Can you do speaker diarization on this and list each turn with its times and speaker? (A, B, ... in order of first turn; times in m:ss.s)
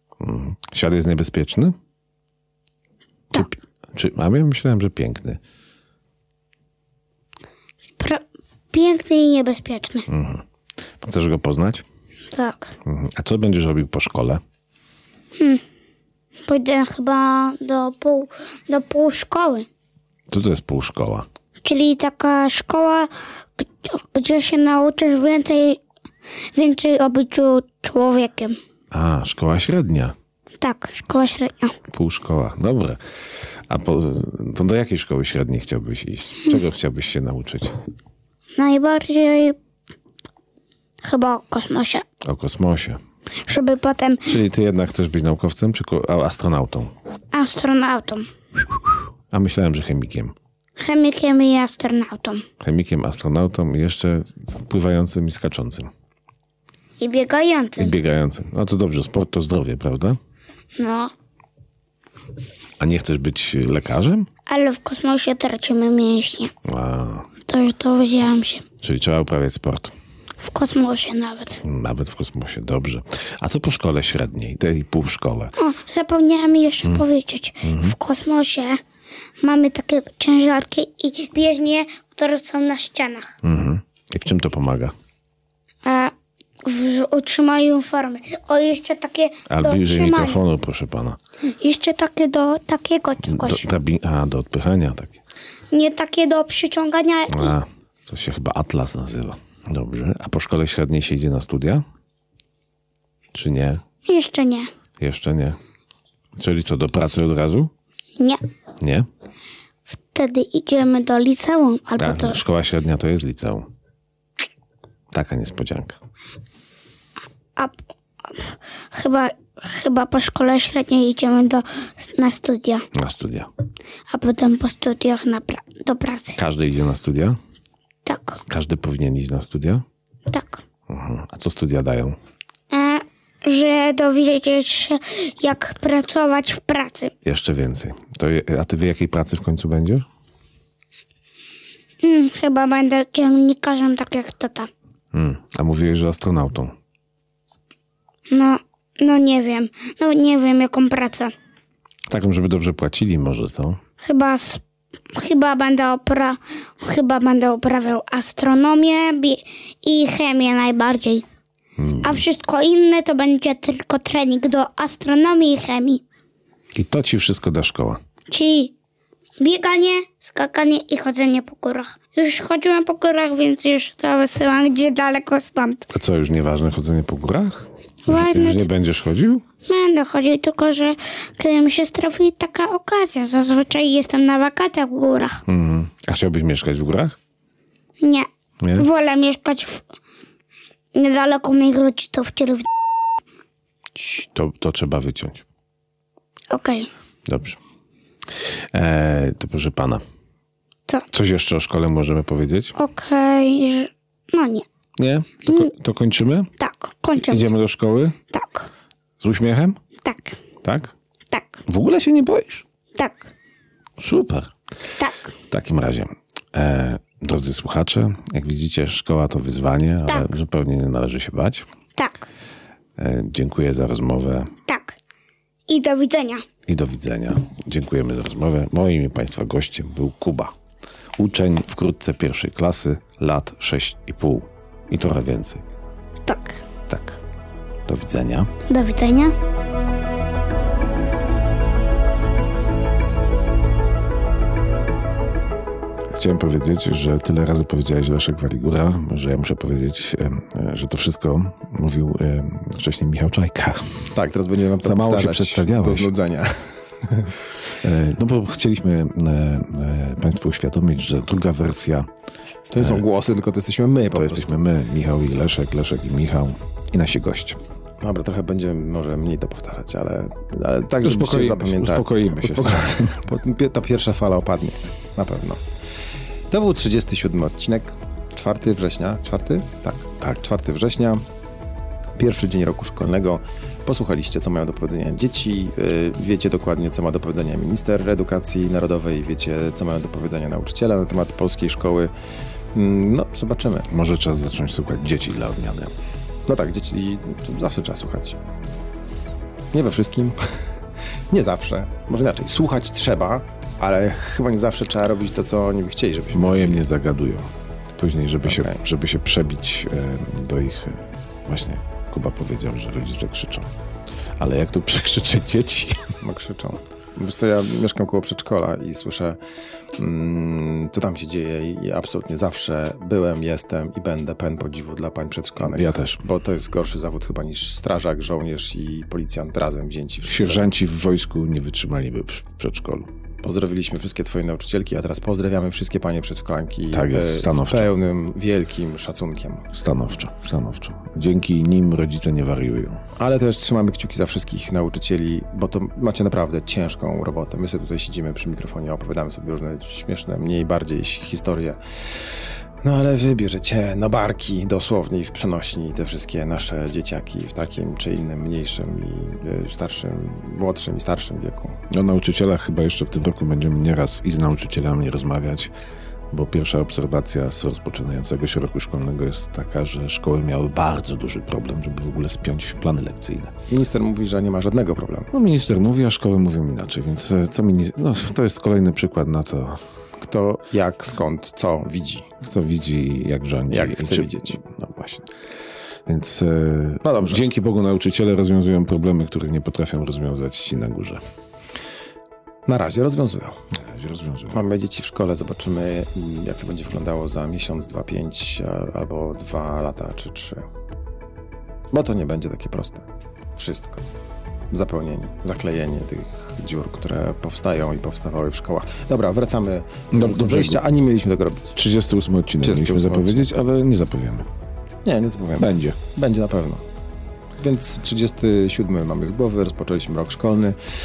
0:00.2-0:01.8 A
0:03.3-0:05.4 A
0:08.0-0:10.1 B
0:10.1-0:10.4 A
0:11.0-0:11.8 A
0:12.3-0:12.7 B
0:12.8-0:14.4 A
0:15.4-0:15.6 B
0:16.5-0:19.7 B
0:20.3-0:21.3 A
0:21.6-0:25.8 B
0:26.5-0:28.6 B
0:28.9-0:30.2 A
0:30.6-0:31.8 B
0:31.9-0:33.0 A
0:33.7-0:37.8 A
0:38.6-0:39.6 B
0:41.0-0:42.0 B
0:42.2-0:43.0 A
0:43.4-0:44.4 B
0:44.2-0:46.9 A
0:47.3-0:48.3 B
0:49.3-0:50.4 A
0:50.8-0:52.5 B
0:52.6-0:55.9 A
0:57.0-0:58.0 B
0:57.8-1:00.2 A
1:00.8-1:01.1 B
1:02.8-1:04.3 A
1:04.5-1:06.5 B
1:06.6-1:07.3 A
1:07.5-1:08.7 B
1:08.8-1:09.9 A
1:10.4-1:11.6 B
1:11.6-1:15.6 A
1:15.6-1:18.8 B
1:17.6-1:18.0 A
1:19.4-1:23.4 B
1:23.4-1:24.9 A
1:25.8-1:26.1 B
1:26.6-1:30.4 B
1:29.5-1:31.2 A
1:31.5-1:33.7 B
1:33.2-1:35.2 A
1:35.7-1:37.6 B
1:37.3-1:41.8 A
1:43.3-1:43.8 A
1:44.0-1:44.7 B
1:45.0-1:45.6 A
1:46.4-1:47.7 A
1:48.8-1:49.1 A
1:49.9-1:52.4 B
1:52.0-1:53.7 A
1:55.1-1:56.0 A
1:58.3-2:02.9 B
2:02.9-2:03.5 A
2:04.1-2:06.4 B
2:06.4-2:07.4 A
2:08.0-2:08.4 B
2:08.5-2:09.8 A
2:10.3-2:10.6 B
2:10.9-2:12.2 A
2:12.7-2:17.1 B
2:17.2-2:20.1 A
2:22.0-2:24.7 B
2:25.1-2:26.8 A
2:28.3-2:31.3 B
2:32.1-2:33.8 A
2:34.0-2:34.6 B
2:35.1-2:41.2 B
2:41.8-2:42.2 A
2:42.0-2:46.0 B
2:46.8-2:48.0 A
2:48.3-2:48.7 B
2:49.4-2:55.9 B
2:55.9-2:59.4 A
2:58.1-2:58.7 B
2:59.7-3:05.4 B
3:05.5-3:07.2 A
3:08.0-3:09.8 B
3:08.6-3:08.9 A
3:11.0-3:12.7 B
3:14.0-3:15.4 A
3:16.5-3:16.9 B
3:17.3-3:17.6 A
3:18.3-3:20.0 A
3:21.1-3:22.8 A
3:22.8-3:24.6 B
3:25.0-3:26.5 A
3:25.5-3:25.7 B
3:26.6-3:27.5 B
3:27.3-3:28.2 A
3:28.3-3:28.7 B
3:29.2-3:29.8 A
3:30.0-3:30.4 B
3:30.6-3:30.9 A
3:31.3-3:31.6 B
3:31.7-3:32.6 A
3:33.0-3:33.3 B
3:34.0-3:34.5 A
3:35.0-3:35.4 B
3:35.5-3:41.7 A
3:42.0-3:42.3 B
3:43.0-3:44.5 A
3:44.7-3:45.0 B
3:45.7-3:46.5 B
3:46.7-3:50.5 A
3:51.2-3:55.6 A
3:56.3-3:56.6 B
3:56.9-3:57.2 A
3:57.9-3:58.5 A
3:58.7-3:59.3 B
4:06.1-4:14.2 A
4:14.1-4:17.3 C
4:14.8-4:16.1 A
4:17.7-4:22.1 A
4:22.7-4:24.5 C
4:22.8-4:23.1 A
4:24.1-4:27.6 A
4:28.0-4:35.6 C
4:31.0-4:33.3 A
4:36.5-4:41.2 C
4:42.2-4:52.1 C
4:52.7-4:53.9 C
4:53.9-4:55.9 A
4:56.5-4:58.4 C
4:59.7-5:00.7 C
5:01.3-5:06.8 C
5:06.3-5:13.7 A
5:08.4-5:08.8 C
5:14.4-5:16.1 A
5:16.2-5:19.4 C
5:20.0-5:30.7 C
5:25.6-5:26.2 A
5:30.2-5:33.1 A
5:33.4-5:39.7 C
5:36.9-5:37.9 A
5:39.7-5:43.0 A
5:43.2-5:51.8 C
5:52.8-6:01.8 C
6:01.9-6:05.7 A
6:06.3-6:13.5 A
6:13.7-6:15.3 C
6:15.3-6:19.8 A
6:20.2-6:22.3 C
6:22.4-6:25.3 A
6:23.7-6:24.6 C
6:26.1-6:31.2 A
6:27.0-6:27.4 C
6:32.7-6:33.6 C
6:33.7-6:34.6 A
6:34.5-6:40.7 C
6:41.9-6:43.0 C
6:43.6-6:44.0 C
6:44.7-6:51.8 C
6:50.1-6:50.8 A
6:51.8-6:54.5 A
6:52.6-6:53.5 C
6:55.0-6:56.8 C
6:55.6-6:56.0 A
6:57.6-7:00.8 C